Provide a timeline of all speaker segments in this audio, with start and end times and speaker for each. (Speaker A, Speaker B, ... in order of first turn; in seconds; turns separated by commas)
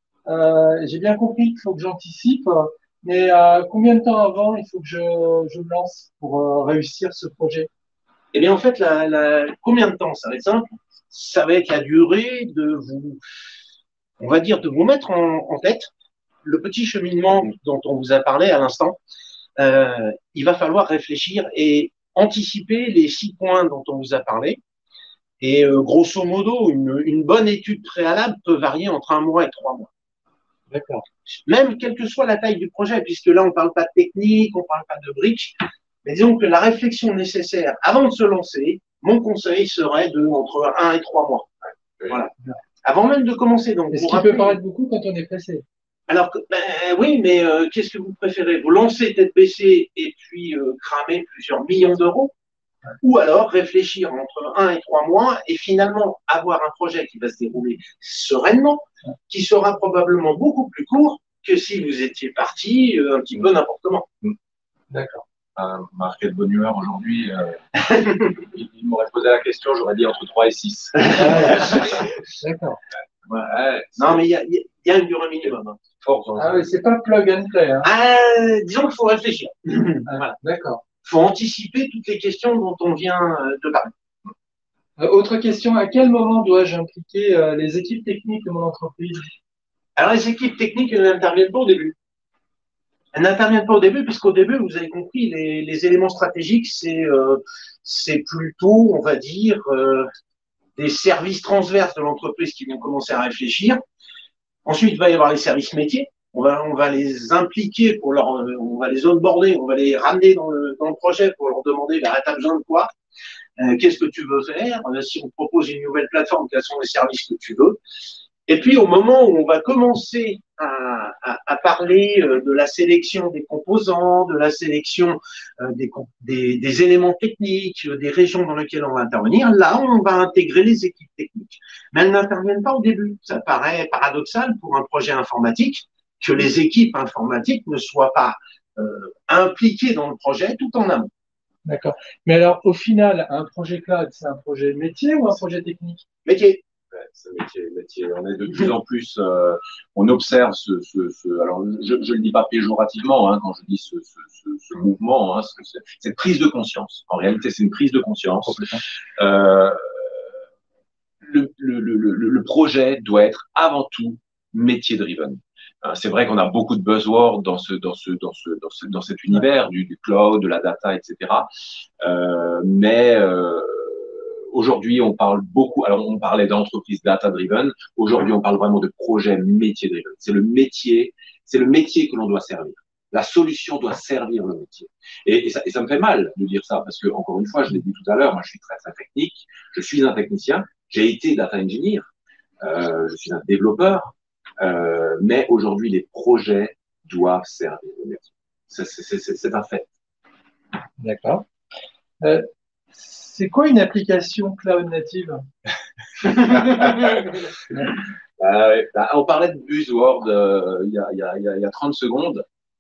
Speaker A: 0.3-7.7, Speaker B: 8.3-13.2, Speaker B: 14.2-15.9, Speaker B: 16.4-19.0, Speaker B: 19.6-24.6, Speaker B: 25.4-29.9, Speaker A: 30.7-31.0, Speaker B: 31.5-41.5, Speaker B: 42.9-44.6, Speaker A: 43.9-45.6, Speaker B: 46.1-52.3, Speaker B: 53.0-64.1, Speaker A: 64.9-65.2, Speaker C: 65.6-67.6, Speaker B: 67.9-68.3, Speaker C: 68.4-72.0, Speaker A: 71.2-71.9, Speaker A: 72.4-72.8, Speaker C: 73.3-74.2, Speaker B: 74.0-75.8, Speaker C: 76.0-76.6, Speaker A: 76.4-77.9, Speaker B: 77.8-80.4, Speaker A: 80.1-80.8, Speaker B: 81.0-83.9, Speaker A: 85.0-89.3, Speaker B: 90.0-92.0, Speaker B: 93.1-100.1, Speaker B: 100.8-103.8, Speaker B: 104.7-112.9, Speaker B: 113.6-117.8, Speaker B: 118.5-141.1, Speaker A: 141.7-146.0, Speaker B: 146.2-146.6, Speaker C: 146.9-160.2, Speaker C: 161.2-171.5, Speaker C: 172.0-192.1, Speaker C: 192.6-199.9, Speaker A: 201.0-201.4, Speaker A: 202.2-205.4, Speaker C: 206.2-207.8, Speaker C: 208.4-212.4